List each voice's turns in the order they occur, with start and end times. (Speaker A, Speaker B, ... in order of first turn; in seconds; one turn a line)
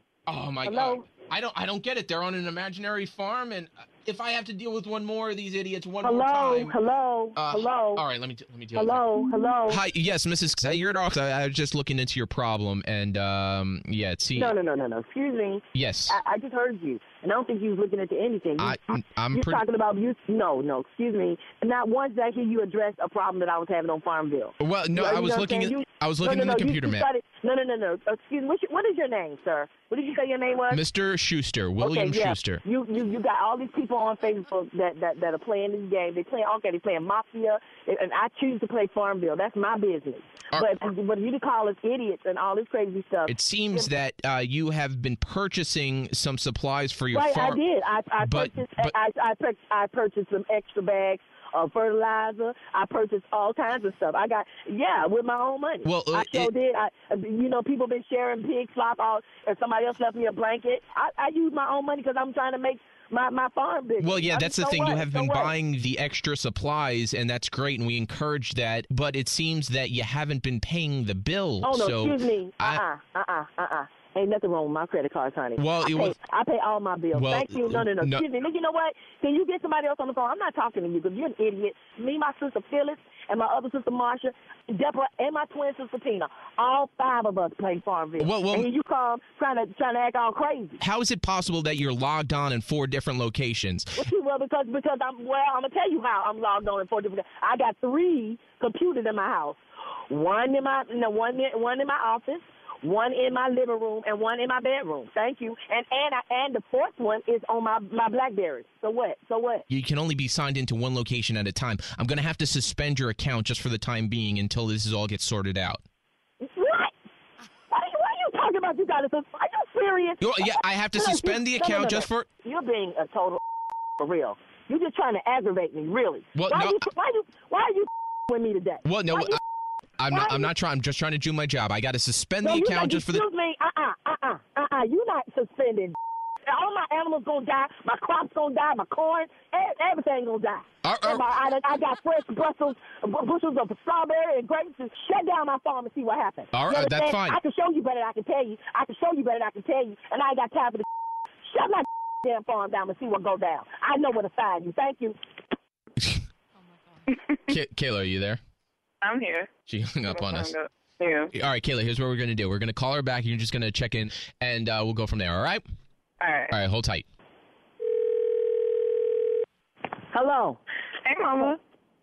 Speaker A: 0.3-0.9
Speaker B: 0.6-1.1
Speaker A: 1.6-6.6
Speaker B: 6.0-8.0
Speaker A: 7.4-8.8
Speaker B: 8.7-9.8
Speaker A: 9.7-14.6
Speaker B: 14.3-18.8
Speaker A: 15.7-16.1
Speaker A: 18.6-19.6
Speaker B: 19.3-30.8
Speaker A: 24.6-27.1
Speaker A: 30.7-32.6
Speaker B: 31.8-43.9
Speaker A: 40.5-40.8
Speaker A: 43.3-47.6
Speaker B: 47.1-65.5
Speaker A: 48.2-48.9
Speaker A: 55.8-56.5
Speaker A: 64.0-72.8
Speaker B: 71.6-90.8
Speaker A: 75.5-76.2
Speaker A: 77.1-78.3
Speaker A: 88.2-88.7
Speaker A: 90.8-94.0
Speaker B: 94.0-99.6
Speaker B: 100.1-109.6
Speaker A: 109.7-115.8
Speaker B: 116.4-116.9
Speaker B: 117.7-123.4
Speaker A: 120.2-122.3
Speaker B: 124.0-129.4
Speaker A: 126.3-126.8
Speaker A: 128.8-129.4
Speaker A: 130.0-133.2
Speaker B: 130.1-130.5
Speaker B: 132.4-135.9
Speaker B: 136.5-150.8
Speaker A: 140.8-141.3
Speaker A: 146.5-147.4
Speaker B: 151.5-155.2
Speaker A: 157.5-158.4
Speaker C: 159.0-159.6
Speaker A: 159.7-160.5
Speaker C: 160.1-161.3
Speaker A: 161.3-165.6
Speaker C: 166.2-166.5
Speaker A: 166.5-167.0
Speaker B: 170.1-170.6
Speaker C: 171.0-171.6